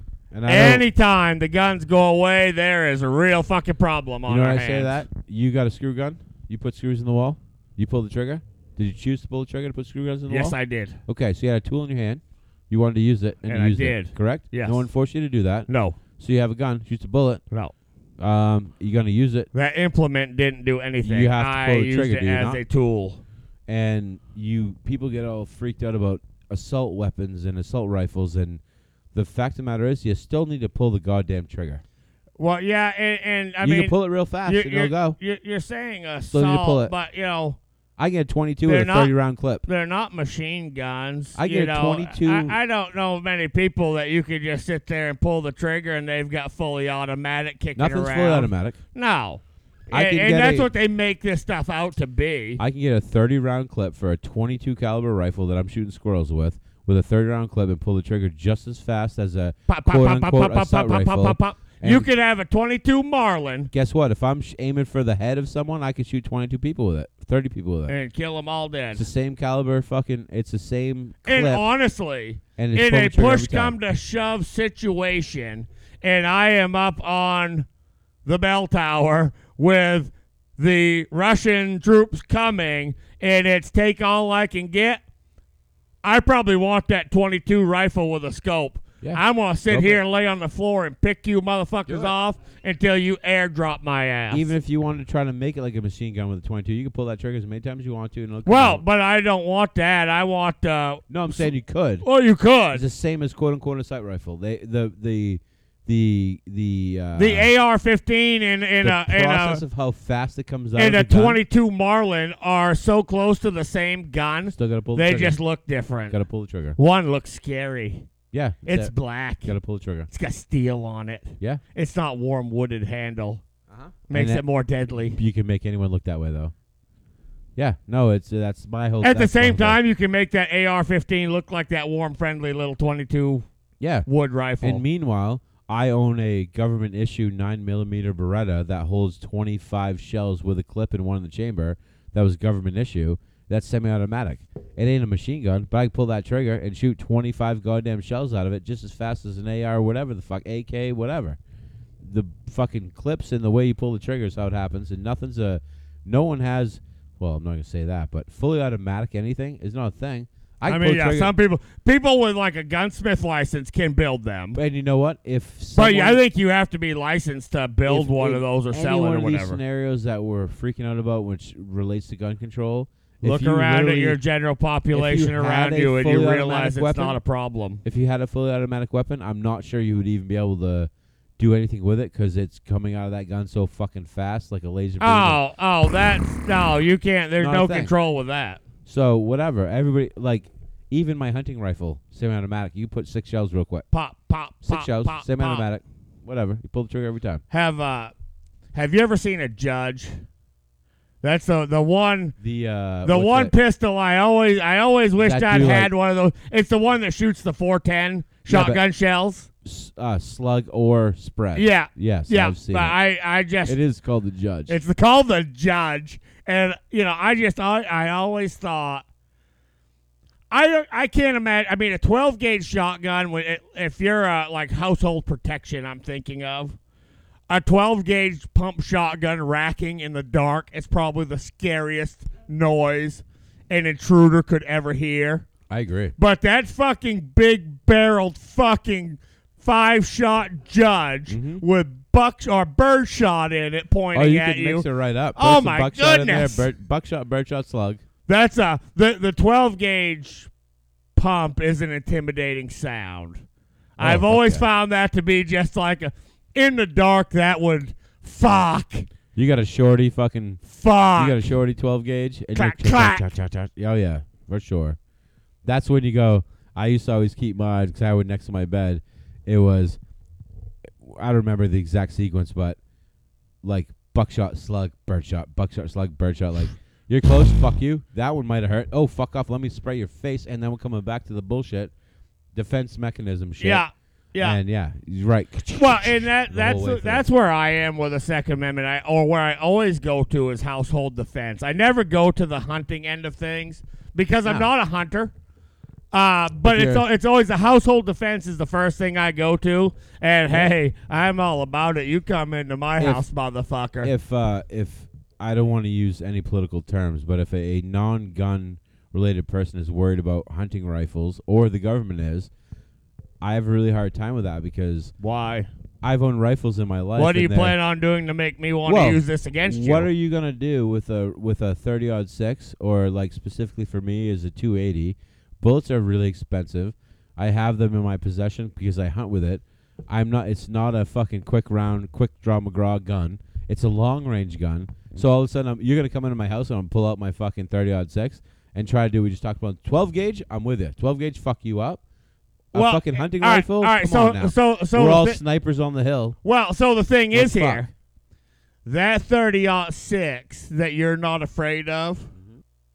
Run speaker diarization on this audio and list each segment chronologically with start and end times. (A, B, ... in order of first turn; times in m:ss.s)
0:00.3-0:00.8 A
0:00.4-0:05.0 B
0:04.2-0:10.5 A
0:10.3-0:11.0 B
0:11.0-0:17.4 A
0:13.5-0:14.9 B
0:15.7-0:16.0 B
0:18.2-0:19.5 A
0:19.5-0:23.2 B
0:21.0-0:22.6 A
0:23.7-0:28.6 A
0:29.1-0:31.8 A
0:32.4-0:37.6 B
0:33.6-0:35.2 A
0:36.3-0:36.9 A
0:38.0-0:39.6 A
0:38.6-0:39.1 B
0:39.6-0:52.6 B
0:41.4-0:42.6 A
0:47.8-0:48.8 A
0:49.9-0:50.7 A
0:52.6-1:02.1 A
0:59.7-1:03.7 B
1:03.7-1:07.9 A
1:07.9-1:09.1 B
1:08.9-1:11.6 A
1:11.2-1:17.6 B
1:12.6-1:13.8 A
1:18.2-1:25.0 B
1:26.0-1:34.5 B
1:29.0-1:30.0 A
1:31.9-1:32.1 A
1:34.3-1:38.8 A
1:38.4-1:41.5 B
1:41.1-1:42.0 A
1:42.0-1:42.8 B
1:42.7-1:47.5 A
1:47.2-1:49.6 B
1:48.8-1:51.4 A
1:50.8-1:56.2 B
1:54.5-1:55.4 A
1:56.1-1:56.8 A
1:56.8-1:58.1 B
1:58.3-1:58.9 A
1:58.6-1:59.5 B
1:59.4-2:00.1 A
2:00.1-2:03.4 B
2:03.7-2:04.4 A
2:04.1-2:05.2 B
2:05.1-2:06.5 A
2:07.6-2:09.8 A
2:09.0-2:13.4 B
2:13.8-2:14.1 A
2:14.0-2:14.8 B
2:14.6-2:31.4 A
2:32.0-2:41.3 A
2:40.6-2:44.6 B
2:44.5-2:46.2 A
2:45.7-2:49.6 B
2:47.8-2:54.2 A
2:53.2-2:57.8 B
2:54.9-2:57.2 A
2:57.8-3:05.4 A
3:05.0-3:08.6 B
3:07.4-3:07.9 A
3:08.8-3:13.8 A
3:13.9-3:15.7 B
3:14.6-3:17.4 A
3:17.5-3:18.1 B
3:18.7-3:20.1 B
3:21.2-3:22.3 B
3:22.4-3:23.5 A
3:23.0-3:29.5 B
3:25.2-3:25.9 A
3:28.5-3:28.8 A
3:29.6-3:33.0 A
3:31.5-3:33.8 B
3:33.6-3:34.8 A
3:34.7-3:39.0 B
3:40.5-3:46.8 B
3:47.5-3:55.5 B
3:55.7-3:56.1 A
3:56.2-4:06.7 B
4:01.3-4:01.6 A
4:04.1-4:08.0 A
4:08.3-4:10.5 B
4:11.2-4:13.4 B
4:14.0-4:19.1 B
4:14.0-4:14.6 A
4:19.3-4:25.0 A
4:20.6-4:21.5 B
4:22.5-4:23.3 B
4:25.6-4:30.0 A
4:31.0-4:32.8 A
4:33.6-4:41.9 A
4:42.5-4:43.8 A
4:43.6-4:44.6 B
4:44.4-4:47.2 A
4:45.7-4:55.3 B
4:56.1-5:04.1 B
4:56.6-4:57.0 A
5:03.0-5:03.2 A
5:04.0-5:12.5 A
5:13.4-5:15.1 A
5:15.2-5:15.7 B
5:16.0-5:17.8 A
5:17.2-5:20.1 B
5:18.8-5:42.0 A
5:42.7-5:46.4 A
5:42.7-5:45.4 B
5:46.4-5:47.9 B
5:47.3-5:47.8 A
5:48.8-5:52.3 B